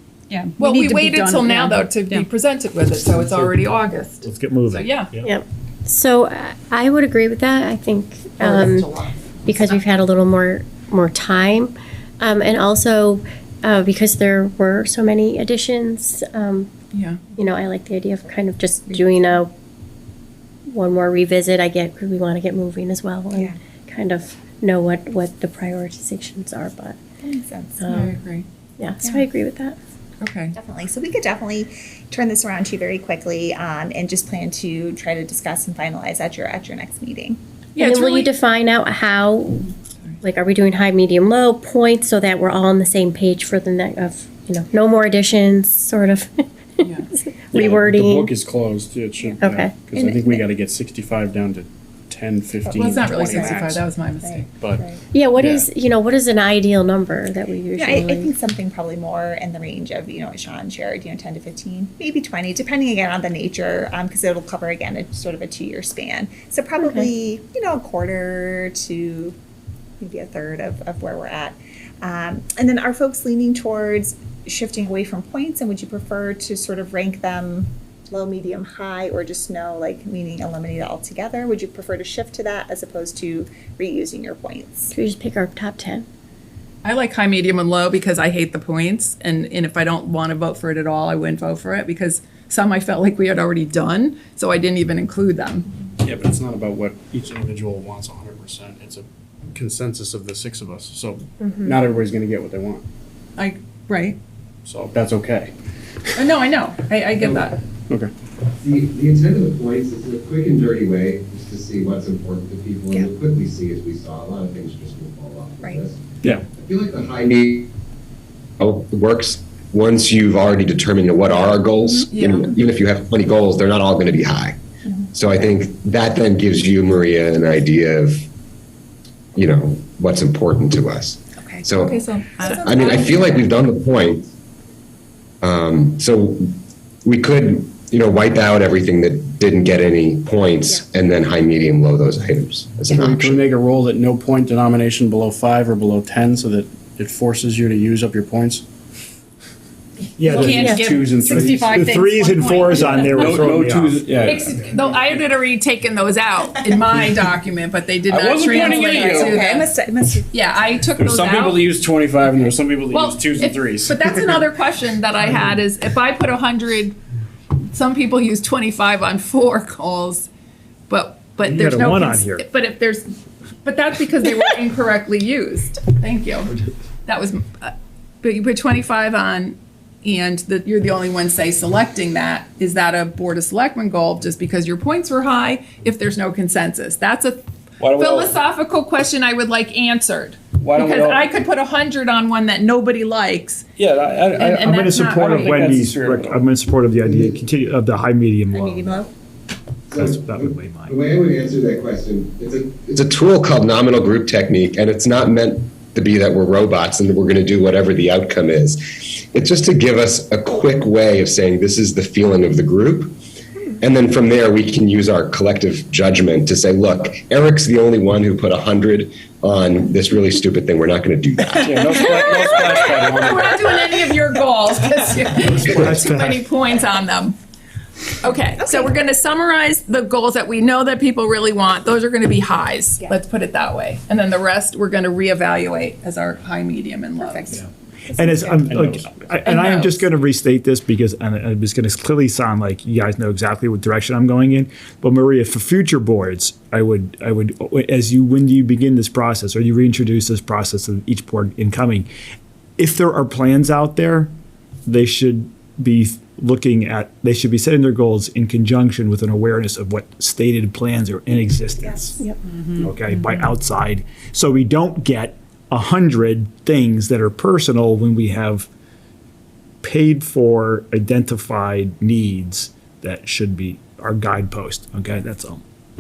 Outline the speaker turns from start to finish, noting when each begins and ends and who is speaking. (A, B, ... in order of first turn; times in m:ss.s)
0:00.3-0:02.2 A
0:00.6-0:05.1 B
0:04.2-0:05.3 C
0:05.2-0:16.7 D
0:08.4-0:08.8 B
0:16.9-0:17.2 B
0:17.4-0:19.5 D
0:20.7-0:27.0 D
0:23.3-0:23.6 E
0:27.2-0:28.1 E
0:27.8-0:28.1 D
0:27.9-0:28.4 B
0:28.8-0:29.8 D
0:29.0-0:29.3 E
0:30.2-0:30.6 B
0:30.5-0:37.4 E
0:37.8-0:38.3 B
0:37.8-0:39.7 D
0:40.2-0:46.8 D
0:46.8-0:47.1 B
0:47.4-0:48.3 D
0:47.5-0:53.9 F
0:49.3-0:50.4 E
0:49.4-0:49.7 D
0:52.6-0:53.6 E
0:52.8-0:54.5 B
0:54.3-0:55.0 E
0:54.6-0:55.7 F
0:55.1-0:58.3 D
0:57.7-1:09.4 E
1:06.8-1:07.1 D
1:10.0-1:25.0 E
1:24.9-1:26.0 D
1:26.8-1:35.7 B
1:36.0-1:42.8 F
1:41.5-1:41.7 D
1:43.4-1:44.2 B
1:44.6-1:45.5 F
1:46.2-1:47.6 B
1:47.2-1:47.5 G
1:48.6-1:57.7 G
1:58.6-2:04.6 G
2:02.1-2:02.5 B
2:05.1-2:08.3 G
2:09.3-2:12.0 G
2:11.5-2:13.5 E
2:11.9-2:13.1 B
2:12.6-2:14.3 G
2:15.4-2:23.4 G
2:22.9-2:28.6 F
2:30.2-2:34.3 C
2:30.2-2:31.9 F
2:30.3-2:33.2 B
2:31.2-2:31.8 A
2:32.7-2:35.2 F
2:34.2-2:39.7 B
2:38.1-2:39.4 F
2:38.5-2:40.3 E
2:40.3-2:41.6 B
2:41.0-2:44.5 F
2:42.9-2:47.0 B
2:47.5-2:50.3 B
2:50.9-2:53.0 B
2:51.4-2:52.4 C
2:53.6-2:56.5 B
2:57.0-3:13.6 B
3:07.8-3:08.3 F
3:10.6-3:11.2 F
3:13.8-3:14.6 F
3:14.3-3:15.6 B
3:14.6-3:19.0 C
3:15.2-3:16.4 F
3:17.0-3:17.4 G
3:18.5-3:19.1 E
3:19.9-3:33.1 G
3:19.9-3:20.9 C
3:33.8-3:42.0 G
3:41.6-3:43.7 F
3:42.3-3:47.4 B
3:45.5-3:46.4 C
3:45.6-3:46.0 F
3:48.2-3:57.6 B
3:57.2-3:58.6 E
3:57.5-4:12.1 C
3:58.7-3:59.2 F
3:59.4-4:00.0 B
4:12.8-4:14.3 C
4:14.8-4:22.2 C
4:21.8-4:22.1 E
4:22.6-4:22.9 A
4:22.8-4:28.7 C
4:29.8-4:35.6 C